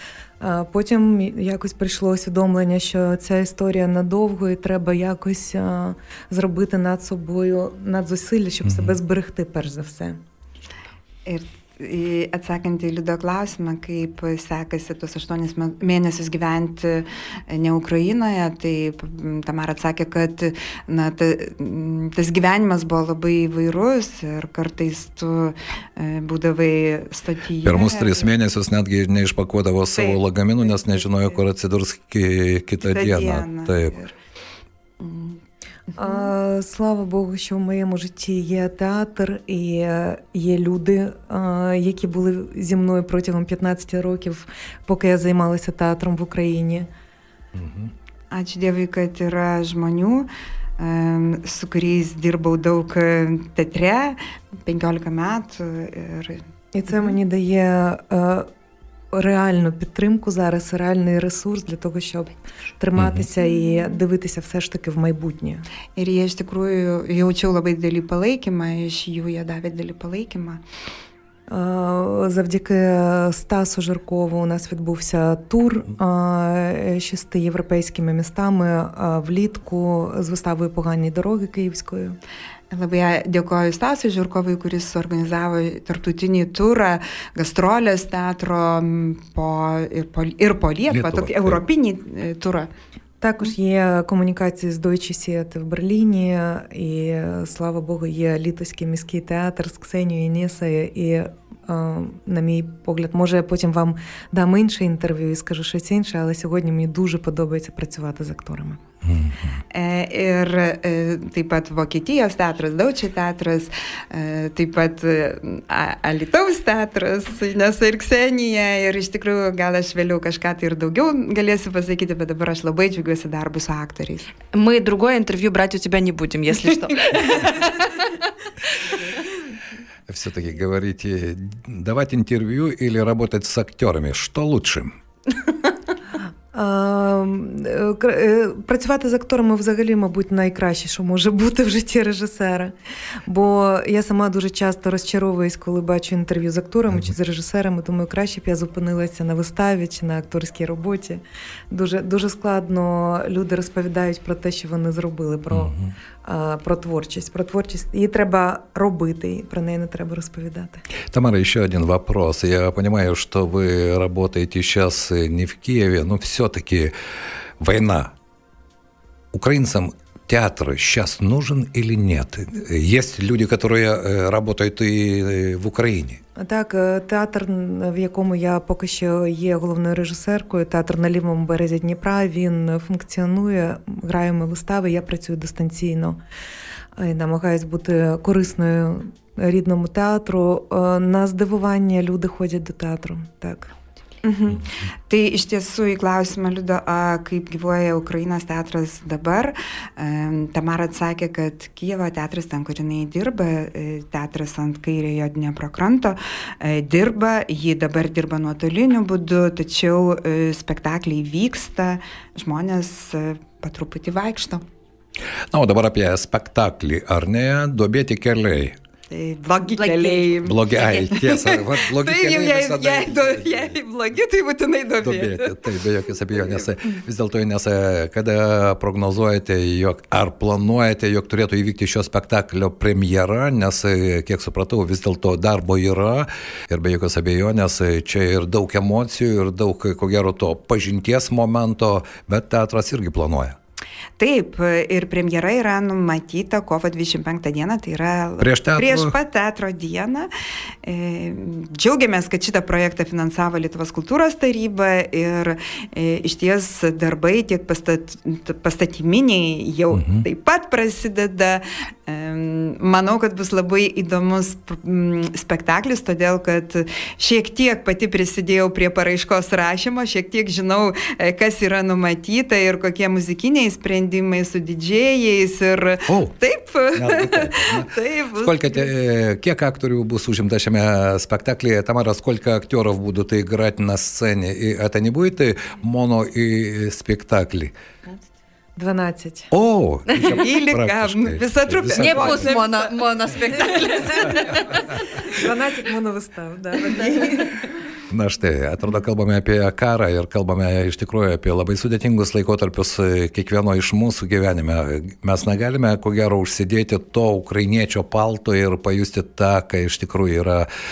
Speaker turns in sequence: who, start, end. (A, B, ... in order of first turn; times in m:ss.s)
0:00.4-0:10.2 A
0:08.6-0:09.0 B
0:11.2-0:28.3 C
0:27.6-0:34.0 B
0:30.0-0:31.4 C
0:32.8-0:34.1 C
0:35.0-0:35.4 C
0:36.0-0:46.9 A
0:47.6-0:47.9 B
0:48.3-0:56.4 C
0:56.7-0:58.5 A
0:59.1-1:05.7 A
1:03.0-1:03.2 B
1:06.0-1:10.6 C
1:11.5-1:22.2 A
1:22.7-1:32.7 C
1:30.9-1:31.6 B
1:33.2-1:48.8 A
1:49.0-1:49.6 B
1:49.7-2:04.3 C
2:04.5-2:08.1 D
2:10.1-2:15.0 B
2:16.5-2:22.7 A
2:23.3-2:40.8 A
2:35.5-2:35.9 B
2:41.1-2:46.9 B
2:47.6-2:48.1 B
2:49.3-2:56.2 B
2:56.4-3:06.2 A
3:07.0-3:13.7 A
3:14.2-3:34.6 C
3:35.5-3:38.8 B
3:39.1-3:45.6 C
3:39.8-3:40.9 D
3:40.4-3:43.8 B
3:45.0-4:03.6 B
4:04.2-4:10.3 C
4:08.4-4:09.1 B
4:10.8-4:38.9 C
4:19.9-4:20.2 B
4:36.1-4:36.3 B
4:36.9-4:47.7 B
4:48.8-4:49.5 A
4:49.5-4:52.5 B
4:50.2-4:52.9 C
4:51.9-4:54.8 D
4:53.5-4:54.3 C
4:53.8-4:54.4 A
4:55.3-4:57.6 A
4:58.1-5:10.7 B